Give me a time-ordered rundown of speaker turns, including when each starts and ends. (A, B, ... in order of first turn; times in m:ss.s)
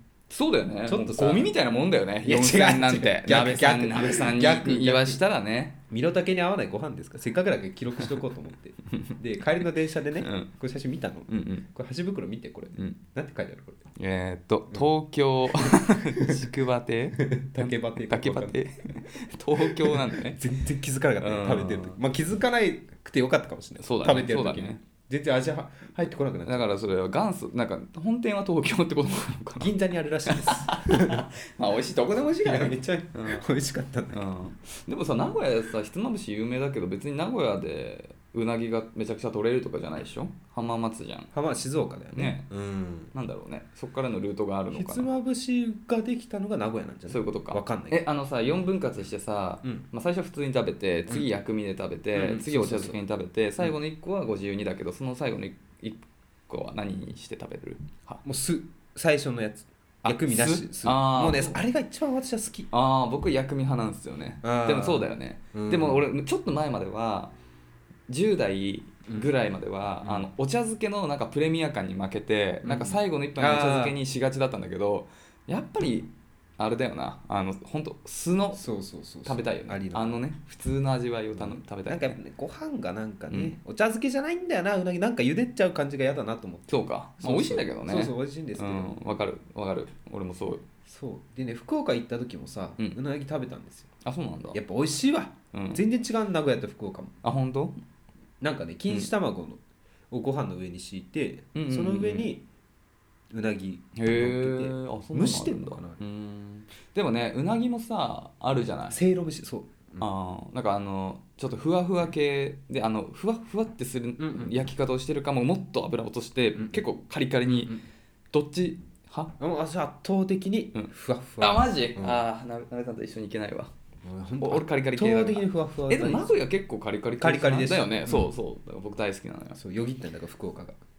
0:00.3-0:05.8 A
0:00.9-0:01.5 B
0:02.2-0:05.2 B
0:05.9-0:13.8 B
0:10.2-0:10.5 A
0:11.3-0:11.6 A
0:14.0-0:20.4 A
0:15.5-0:16.5 B
0:17.2-0:18.6 B
0:19.5-0:26.7 B
0:21.2-0:22.0 A
0:23.8-0:24.8 A
0:25.9-0:29.7 A
0:29.6-0:31.3 B
0:30.2-0:33.4 A
0:32.4-0:34.2 B
0:34.1-0:41.3 A
0:41.3-0:43.1 B
0:42.1-0:42.4 A
0:43.1-0:45.1 A
0:44.7-0:48.0 B
0:47.1-0:58.2 A
0:52.1-0:53.0 B
0:58.2-1:02.7 B
1:00.0-1:01.6 A
1:02.7-1:07.3 A
1:04.4-1:06.0 B
1:08.1-1:18.6 A
1:10.0-1:10.3 B
1:12.6-1:14.0 B
1:18.5-1:20.2 B
1:19.2-1:22.2 A
1:21.3-1:29.0 B
1:23.3-1:23.5 A
1:26.7-1:30.6 A
1:30.8-1:33.9 B
1:34.0-1:34.6 A
1:34.5-1:37.1 B
1:35.5-1:35.8 A
1:37.2-1:37.8 A
1:38.4-1:39.6 B
1:40.1-1:42.4 B
1:41.5-1:42.3 A
1:43.3-1:46.0 B
1:44.0-1:49.0 A
1:48.9-1:50.0 B
1:50.0-1:57.8 A
1:54.2-1:54.5 B
1:57.5-1:57.8 B
1:58.3-1:59.3 A
1:59.4-2:02.2 B
2:00.7-2:03.7 A
2:04.0-2:06.3 B
2:04.4-2:09.6 A
2:07.2-2:08.3 B
2:09.6-2:10.8 B